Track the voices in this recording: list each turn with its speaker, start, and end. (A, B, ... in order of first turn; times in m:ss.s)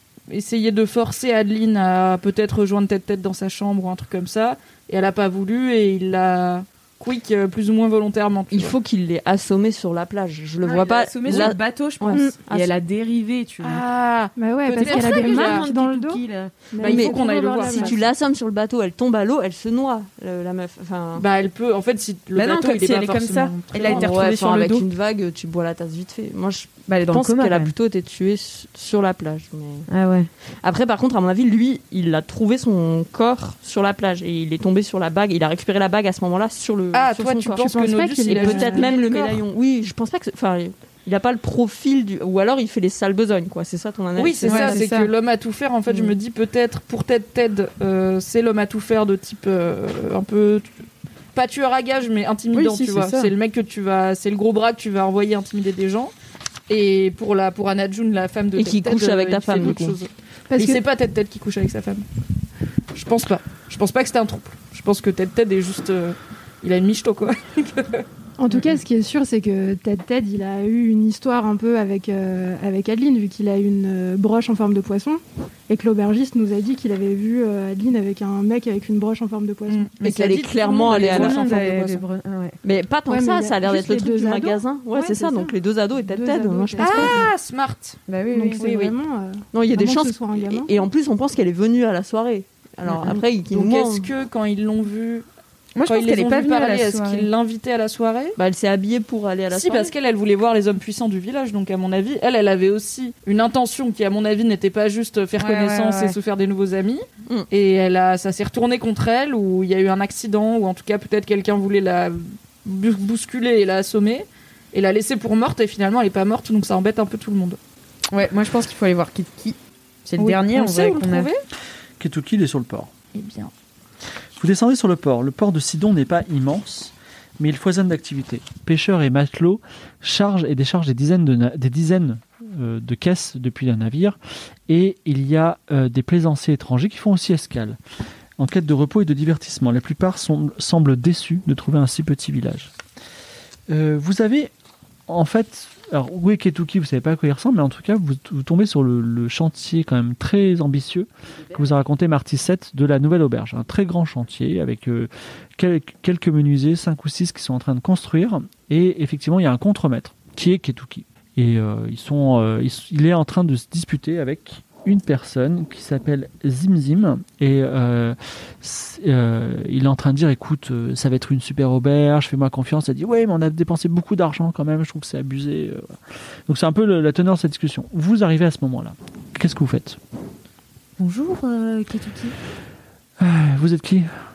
0:00.3-0:08.8 A
0:08.5-0:12.7 B
0:10.6-0:13.8 C
0:13.6-0:15.6 A
0:14.4-0:17.9 D
0:14.8-0:16.5 C
0:16.8-0:18.0 A
0:16.8-0:21.3 B
0:21.1-0:24.2 A
0:22.3-0:24.8 C
0:23.8-0:29.9 B
0:26.8-0:27.7 C
0:29.9-0:30.3 C
0:30.4-0:44.9 B
0:36.9-0:39.4 A
0:37.6-0:38.9 D
0:44.2-0:50.7 A
0:44.4-0:45.1 C
0:51.3-0:56.1 A
0:52.5-0:53.3 C
0:56.7-1:02.0 A
0:58.6-1:00.0 B
1:00.5-1:00.8 D
1:02.9-1:08.0 A
1:08.4-1:19.9 D
1:19.7-1:22.0 A
1:20.0-1:21.6 B
1:20.8-1:22.6 C
1:22.6-1:27.2 B
1:23.1-1:27.3 D
1:26.8-1:28.0 A
1:28.1-1:28.6 C
1:28.3-1:30.7 D
1:28.6-1:28.9 B
1:29.5-1:34.1 B
1:32.8-1:35.2 A
1:35.7-1:37.3 C
1:35.8-1:38.4 A
1:38.4-1:39.9 B
1:39.5-1:57.6 A
1:45.4-1:46.2 C
1:58.1-2:01.3 C
2:00.2-2:01.4 A
2:02.0-2:02.9 E
2:03.1-2:03.5 A
2:04.4-2:14.2 E
2:14.7-2:17.8 E
2:18.4-2:22.7 E
2:23.7-2:24.5 E
2:25.1-2:55.9 E
2:56.5-3:00.0 E
3:01.0-3:02.4 C
3:03.2-3:04.2 E